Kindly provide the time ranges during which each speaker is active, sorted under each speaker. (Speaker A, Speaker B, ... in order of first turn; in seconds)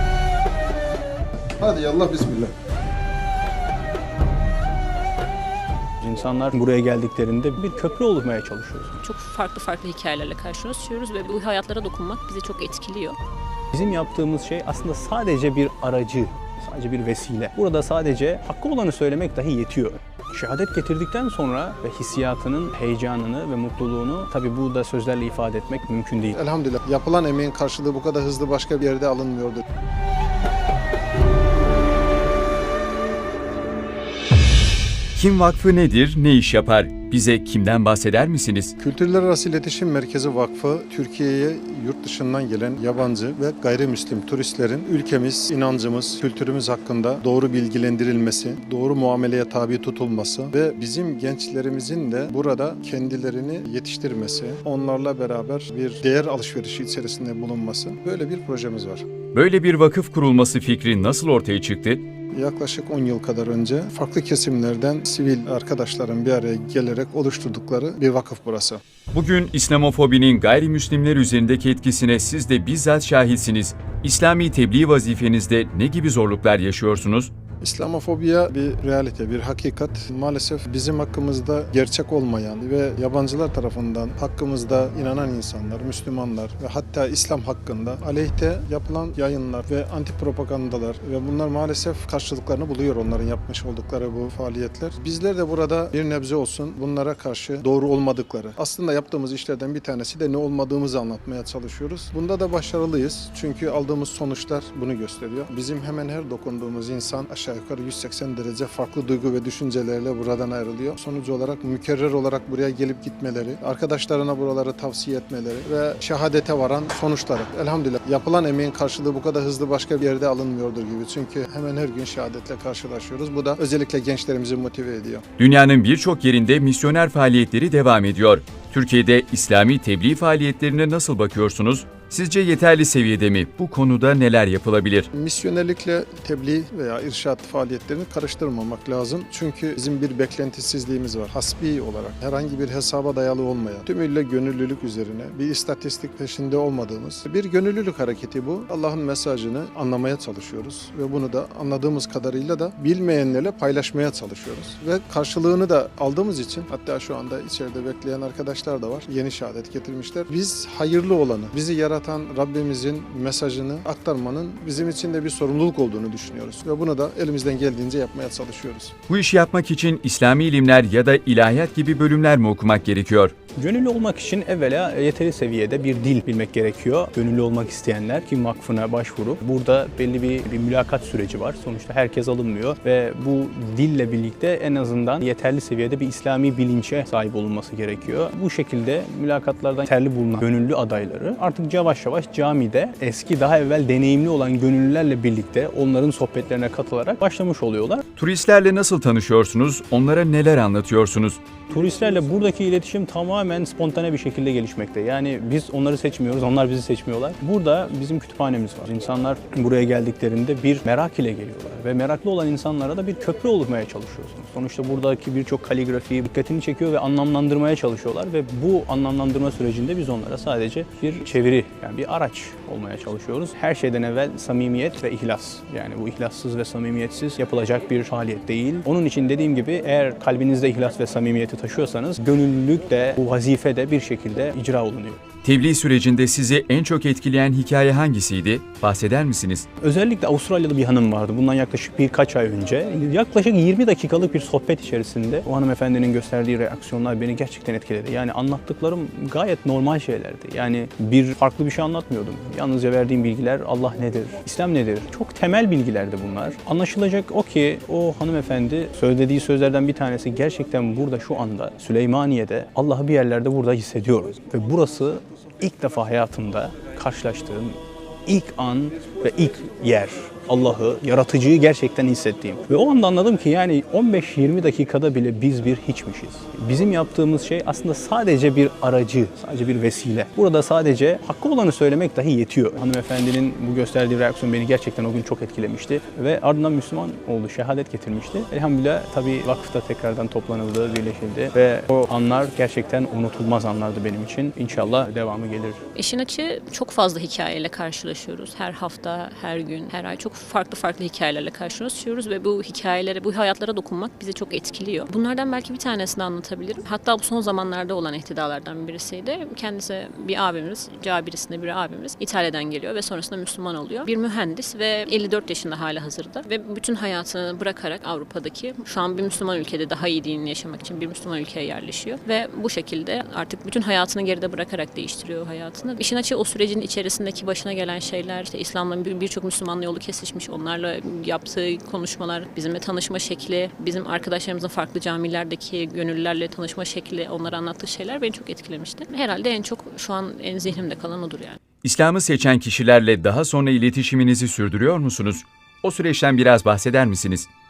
Speaker A: 1.6-2.5, 26.3-29.6, 38.8-59.0, 62.3-68.8, 77.6-125.2, 135.1-168.9
Speaker B: 6.0-9.0, 13.7-26.4, 173.6-198.0, 201.7-235.2, 239.8-295.8
Speaker C: 9.0-13.2, 295.9-341.6
Speaker D: 35.1-38.7, 59.3-62.1, 69.1-77.3, 125.4-135.1, 169.1-173.3, 198.2-201.4, 235.4-239.7, 341.8-347.5